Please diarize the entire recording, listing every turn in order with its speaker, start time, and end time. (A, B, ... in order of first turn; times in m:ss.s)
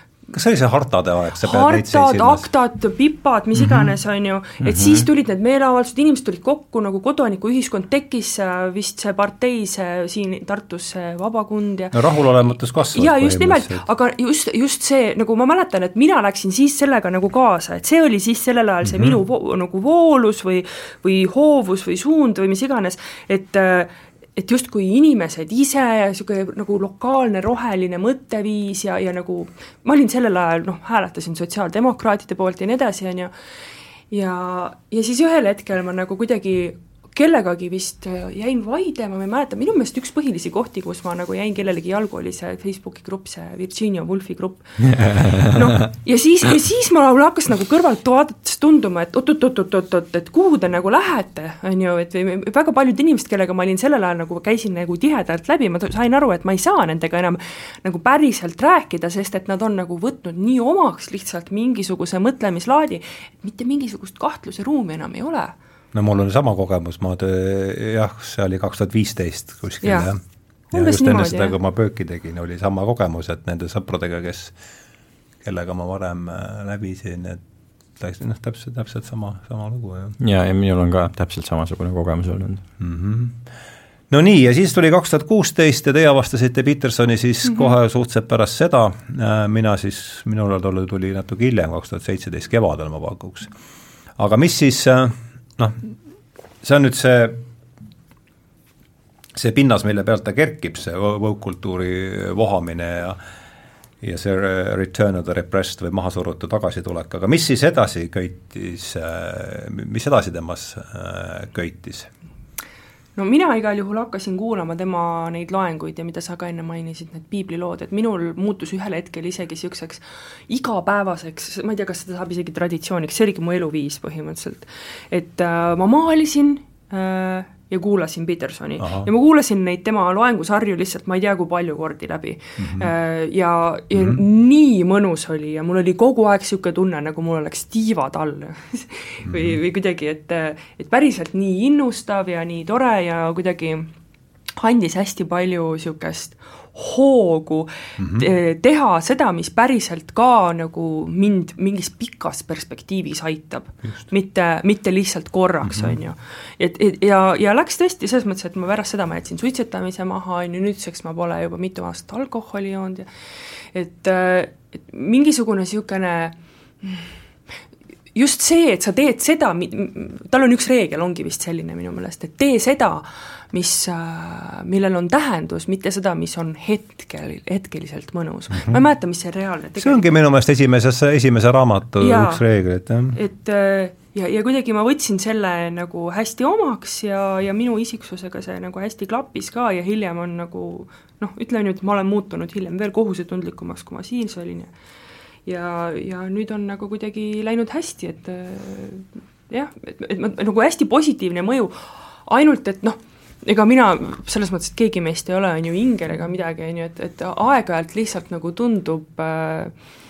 0:00.3-0:02.5 A
0:01.4-0:12.0 B
0:03.6-0:03.9 A
0:04.6-0:05.1 C
0:11.9-0:13.8 A
0:12.5-0:33.3 B
0:18.8-0:19.2 A
0:34.1-1:05.5 B
0:45.2-0:45.5 C
1:05.9-1:10.2 A
1:09.8-1:10.1 B
1:10.7-1:14.5 A
1:10.7-1:11.5 B
1:15.4-1:17.4 A
1:18.0-1:20.2 A
1:20.2-1:22.6 C
1:22.8-1:23.4 A
1:24.1-1:33.5 A
1:34.2-1:35.9 A
1:36.6-1:37.4 A
1:39.4-1:43.2 A
1:44.0-1:52.1 A
1:53.2-2:23.9 B
2:08.8-2:09.1 A
2:12.6-2:12.9 A
2:14.0-2:14.2 A
2:19.3-2:19.6 A
2:24.6-2:43.1 B
2:28.0-2:28.3 A
2:35.7-2:36.0 A
2:43.7-2:47.1 B
2:48.1-3:00.0 B
2:58.5-2:58.8 A
2:59.8-3:03.2 A
3:02.0-3:02.4 B
3:03.1-3:14.7 B
3:15.5-3:21.7 B
3:22.3-3:29.7 B